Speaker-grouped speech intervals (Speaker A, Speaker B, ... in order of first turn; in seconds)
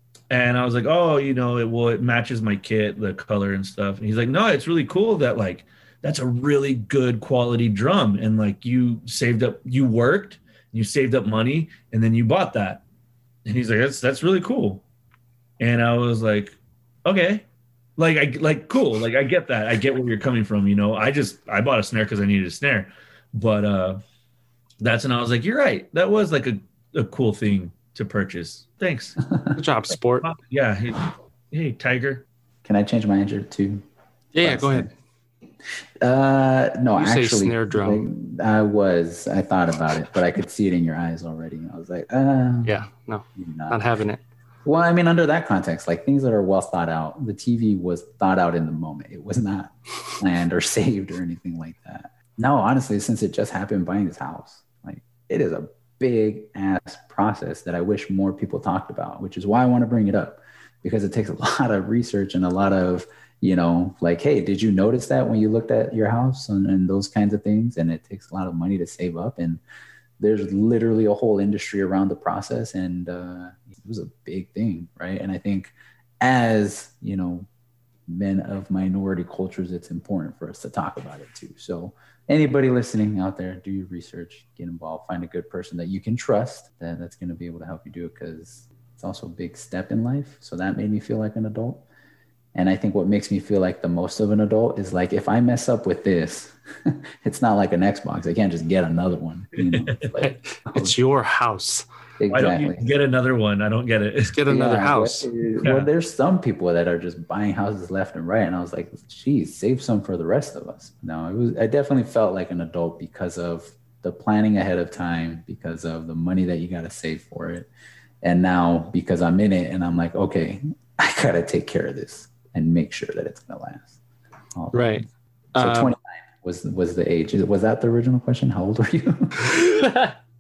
Speaker A: 0.3-12.8, 13.4-14.8, 15.6-17.4, 18.0-24.0, 24.8-29.2, 30.2-32.2, 99.6-100.1, 102.3-104.4, 105.6-105.9
Speaker B: 29.5-30.2, 34.3-34.9, 37.0-38.0, 42.6-44.2, 100.2-101.8, 104.3-105.3, 124.7-125.9, 129.4-130.1
Speaker C: 32.6-33.8, 34.4-34.9, 36.0-42.8, 43.4-43.8, 44.6-69.6, 70.2-77.5, 78.1-91.8, 92.5-101.0, 102.2-102.8, 104.5-117.7, 118.2-124.0, 124.5-125.0, 125.6-129.6